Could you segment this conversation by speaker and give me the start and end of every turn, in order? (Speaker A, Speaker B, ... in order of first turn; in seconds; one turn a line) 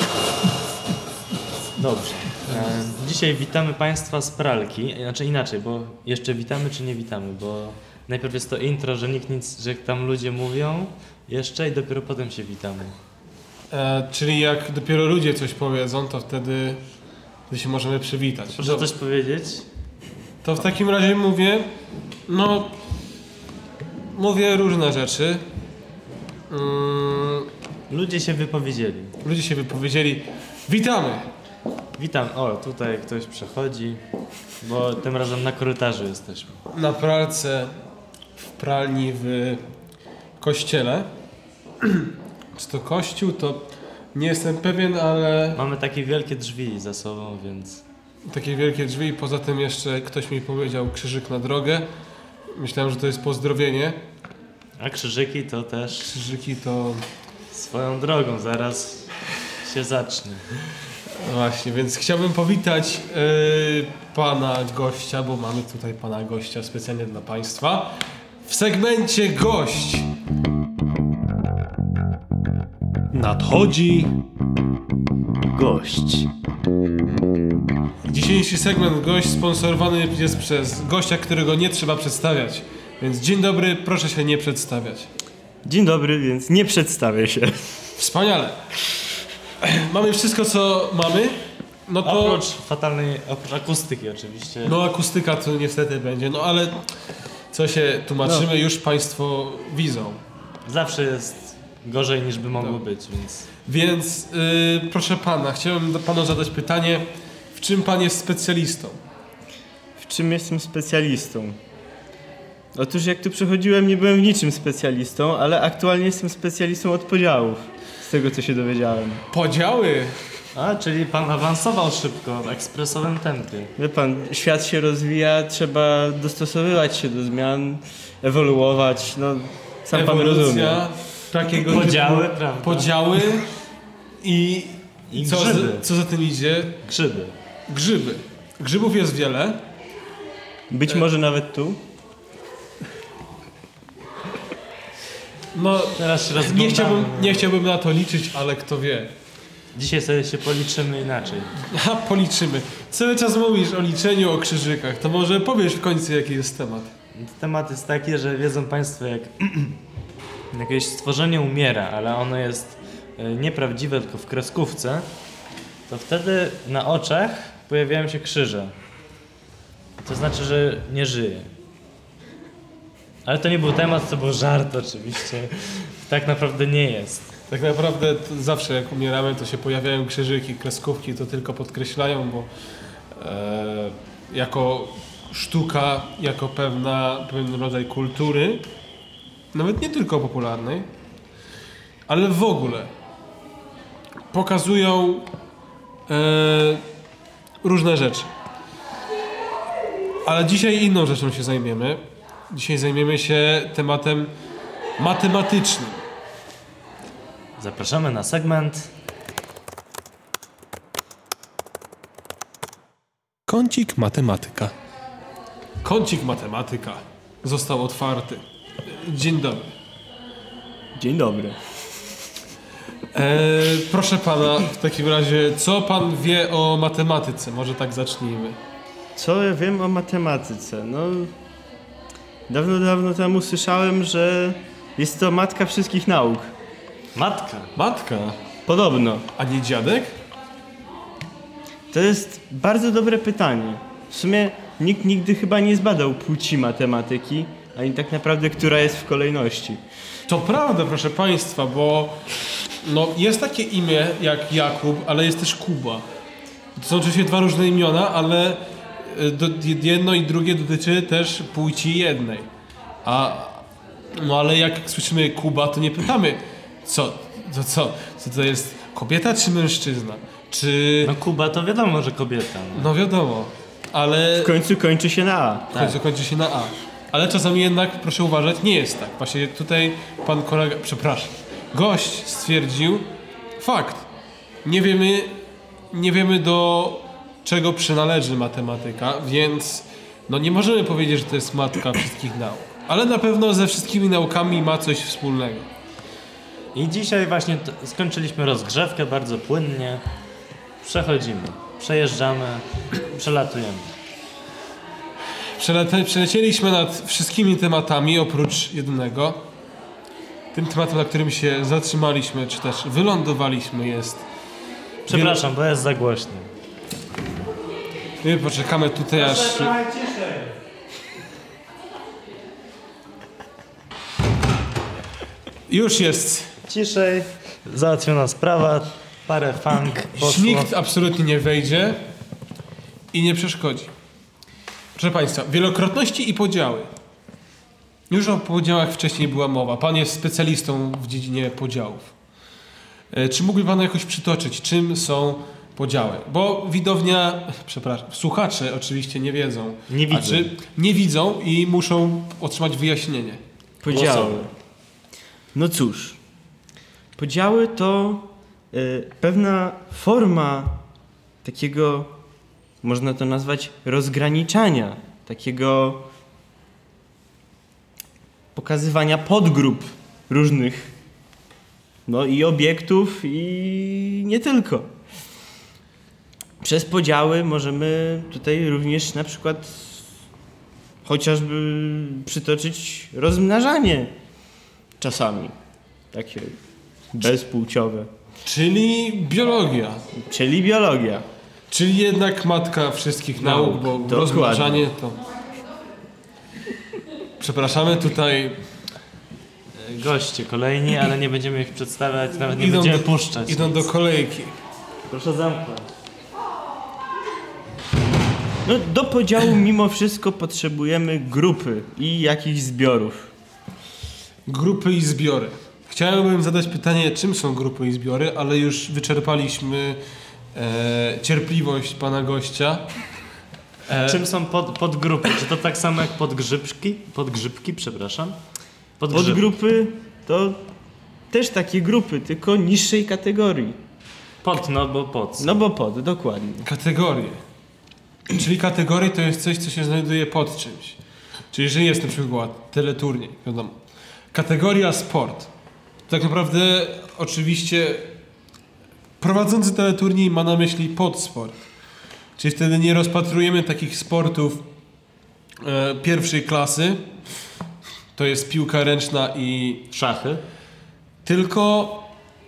Speaker A: 1.8-12.9
Speaker B: 2.5-2.9
Speaker B: 13.7-16.8
Speaker B: 17.5-18.9
Speaker A: 18.6-19.6
Speaker B: 20.4-21.7
Speaker B: 22.3-22.7
Speaker B: 24.1-25.4
Speaker B: 26.5-27.5
Speaker A: 27.9-29.2
Speaker B: 29.2-31.3
Speaker A: 32.0-34.0
Speaker A: 34.6-36.6
Speaker B: 36.7-37.7
Speaker B: 38.4-39.6
Speaker B: 40.4-41.1
Speaker B: 41.8-45.6
Speaker A: 45.5-47.8
Speaker B: 48.2-51.9
Speaker B: 52.5-54.0
Speaker A: 54.8-56.2
Speaker B: 56.1-57.0
Speaker A: 57.5-60.6
Speaker B: 61.1-70.1
Speaker B: 73.1-74.2
Speaker A: 75.5-76.3
Speaker B: 78.0-85.1
Speaker C: 85.6-87.7
Speaker B: 88.0-88.6
Speaker B: 89.6-92.4
Speaker A: 92.0-94.8
Speaker B: 94.6-97.0
Speaker B: 97.5-100.2
Speaker A: 100.7-103.5
Speaker B: 103.7-109.0
Speaker C: 110.0-111.6
Speaker C: 112.8-119.2
Speaker B: 119.3-120.2
Speaker A: 120.5-123.7
Speaker C: 123.8-130.8
Speaker B: 129.9-133.5
Speaker A: 131.7-132.9
Speaker B: 134.2-136.8
Speaker A: 135.1-135.8
Speaker A: 136.8-137.3
Speaker B: 137.7-139.6
Speaker C: 140.7-141.8
Speaker B: 145.5-149.1
Speaker A: 146.0-147.5
Speaker A: 149.7-151.6
Speaker B: 151.6-156.9
Speaker A: 157.1-159.8
Speaker A: 160.5-165.1
Speaker A: 165.9-168.7
Speaker A: 170.0-171.5
Speaker A: 173.2-177.3
Speaker B: 177.5-182.5
Speaker B: 183.1-188.7
Speaker B: 189.5-190.9
Speaker B: 192.1-192.9
Speaker B: 194.3-195.3
Speaker B: 196.1-196.8
Speaker B: 197.6-198.3
Speaker B: 200.2-204.3
Speaker B: 205.0-206.0
Speaker A: 207.6-208.9
Speaker B: 213.5-214.8
Speaker B: 215.8-219.7
Speaker C: 221.0-221.6
Speaker B: 223.1-228.6
Speaker C: 229.2-231.3
Speaker C: 232.5-236.5
Speaker A: 237.2-237.7
Speaker B: 237.8-238.4
Speaker C: 238.7-239.3
Speaker B: 239.4-240.1
Speaker C: 241.9-249.8
Speaker B: 250.3-252.2
Speaker B: 252.8-256.1
Speaker B: 256.8-262.5
Speaker B: 263.0-271.1
Speaker A: 271.0-272.9
Speaker B: 272.8-274.6
Speaker C: 274.4-276.0
Speaker B: 275.7-283.1
Speaker B: 283.6-284.1
Speaker B: 284.6-285.4
Speaker B: 285.9-295.7
Speaker A: 296.7-300.0
Speaker A: 300.8-303.9
Speaker B: 305.6-309.4
Speaker B: 310.5-314.2
Speaker A: 315.1-316.5
Speaker B: 315.1-315.4
Speaker B: 318.2-319.8
Speaker A: 319.2-320.5
Speaker B: 325.7-326.5
Speaker A: 326.7-330.7
Speaker B: 330.2-332.0
Speaker B: 333.1-333.9
Speaker B: 334.9-336.9
Speaker B: 338.1-342.1
Speaker B: 343.1-353.4
Speaker A: 349.9-350.5
Speaker C: 353.8-354.5
Speaker A: 353.9-354.4
Speaker C: 355.5-356.2
Speaker C: 357.2-360.8
Speaker C: 361.4-362.1
Speaker C: 362.8-366.0
Speaker C: 368.6-370.9
Speaker C: 372.1-374.9
Speaker C: 376.6-380.0
Speaker C: 381.1-384.1
Speaker C: 385.0-385.6
Speaker C: 386.1-386.6
Speaker C: 387.1-388.1
Speaker B: 388.4-390.1
Speaker C: 390.1-391.2
Speaker B: 391.7-395.2
Speaker C: 393.4-394.9
Speaker B: 397.4-398.6
Speaker A: 399.8-403.9
Speaker B: 402.6-404.6
Speaker A: 405.1-405.9
Speaker C: 408.6-413.3
Speaker B: 414.4-420.0
Speaker B: 420.5-422.9
Speaker B: 423.9-424.2
Speaker A: 424.1-428.4
Speaker A: 429.0-429.4
Speaker C: 429.1-430.6
Speaker C: 431.3-433.8
Speaker A: 434.4-435.6
Speaker C: 435.4-436.7
Speaker B: 436.6-437.4
Speaker B: 438.3-441.0
Speaker B: 441.5-443.8
Speaker B: 444.3-445.5
Speaker B: 446.1-448.1
Speaker B: 449.2-451.6
Speaker B: 452.4-454.6
Speaker B: 455.6-457.0
Speaker B: 458.1-459.9
Speaker A: 459.9-460.4
Speaker B: 461.2-462.1